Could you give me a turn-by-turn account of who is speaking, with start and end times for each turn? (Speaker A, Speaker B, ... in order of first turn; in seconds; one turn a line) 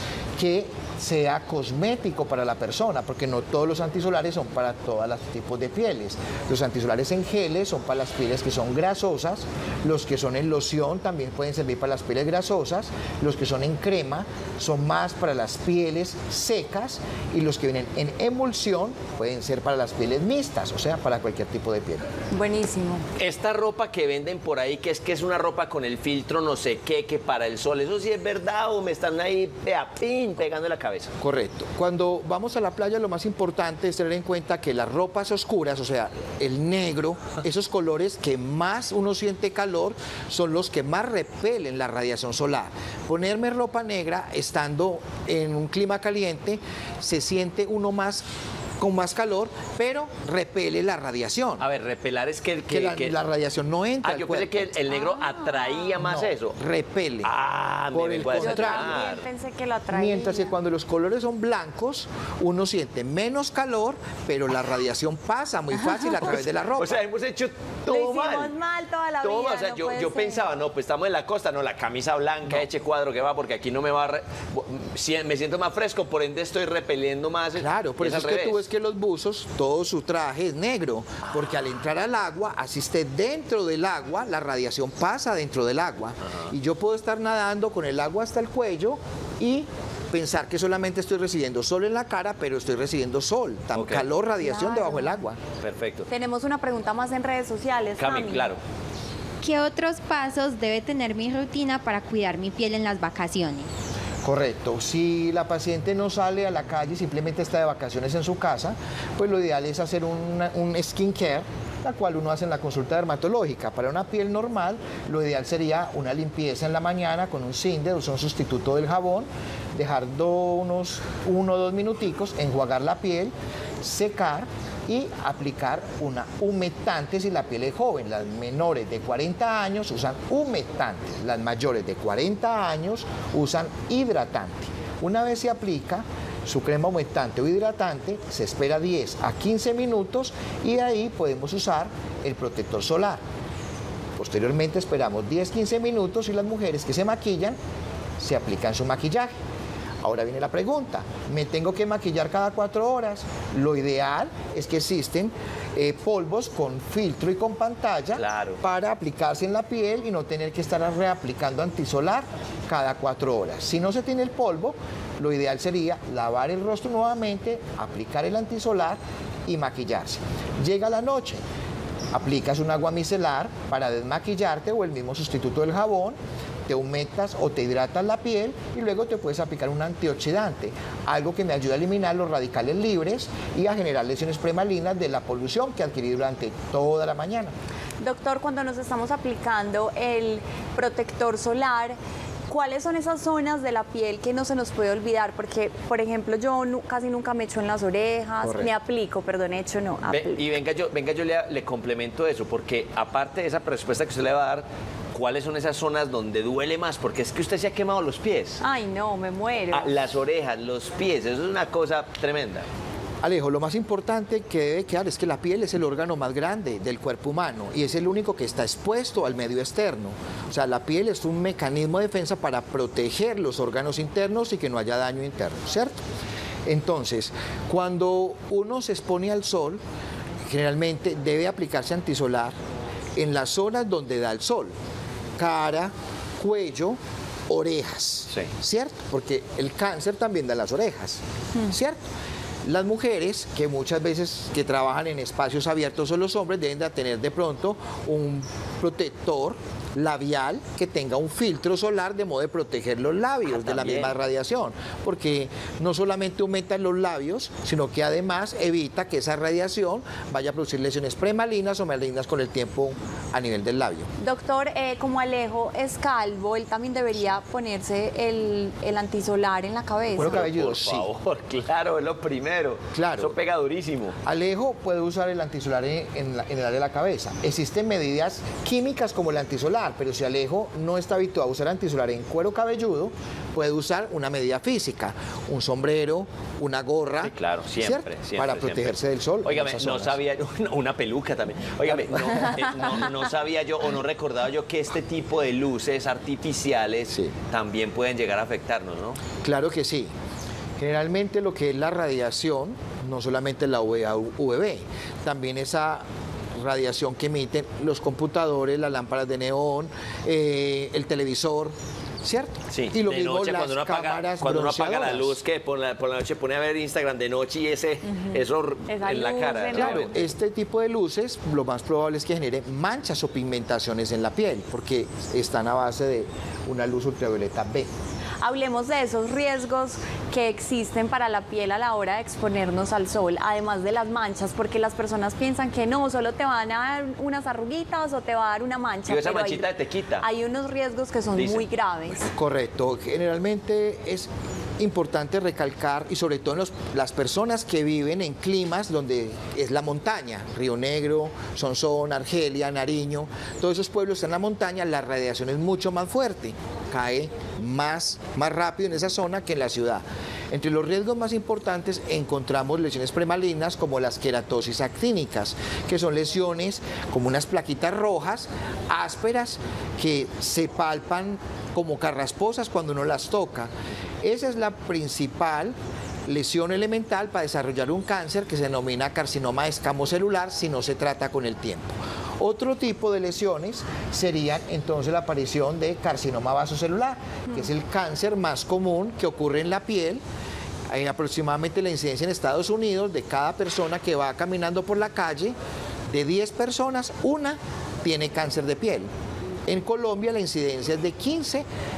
Speaker A: 0.4-22.1
Speaker B: 22.3-23.0
Speaker C: 23.2-31.1
Speaker A: 31.2-48.2
Speaker A: 48.8-51.6
Speaker C: 51.6-53.2
Speaker A: 52.7-54.7
Speaker C: 54.0-56.6
Speaker B: 54.9-55.9
Speaker A: 56.0-57.3
Speaker C: 57.2-59.3
Speaker A: 57.9-59.0
Speaker B: 58.3-60.5
Speaker A: 59.9-67.0
Speaker C: 66.2-68.5
Speaker B: 67.9-70.4
Speaker C: 69.2-78.6
Speaker A: 77.5-95.4
Speaker C: 93.7-94.1
Speaker B: 94.4-95.2
Speaker C: 95.6-96.1
Speaker B: 96.1-98.5
Speaker C: 98.0-98.6
Speaker D: 99.4-103.7
Speaker A: 104.2-143.2
Speaker A: 144.2-147.6
Speaker A: 148.2-149.3
Speaker A: 150.0-171.4
Speaker C: 158.2-158.6
Speaker A: 172.1-176.2
Speaker A: 176.7-187.5
Speaker B: 188.0-192.0
Speaker B: 192.5-200.5
Speaker A: 198.4-198.7
Speaker C: 200.1-208.6
Speaker B: 208.6-210.0
Speaker C: 209.7-212.7
Speaker A: 213.2-226.0
Speaker A: 226.7-229.8
Speaker A: 230.4-232.5
Speaker A: 233.2-234.7
Speaker A: 235.4-242.0
Speaker A: 242.6-264.1
Speaker C: 253.4-254.2
Speaker B: 264.2-270.4
Speaker A: 270.1-271.1
Speaker C: 270.2-274.2
Speaker A: 272.9-273.3
Speaker A: 274.2-290.2
Speaker C: 287.2-299.2
Speaker A: 292.1-292.6
Speaker A: 299.4-300.1
Speaker A: 300.8-306.0
Speaker A: 306.6-315.4
Speaker C: 312.7-320.3
Speaker B: 318.9-320.1
Speaker A: 319.7-327.9
Speaker B: 328.4-339.7
Speaker C: 339.1-340.2
Speaker B: 340.2-342.3
Speaker C: 341.4-341.7
Speaker A: 342.3-373.7
Speaker A: 374.2-375.7
Speaker A: 376.3-390.2
Speaker A: 390.9-395.6
Speaker A: 396.1-399.1
Speaker A: 399.6-401.6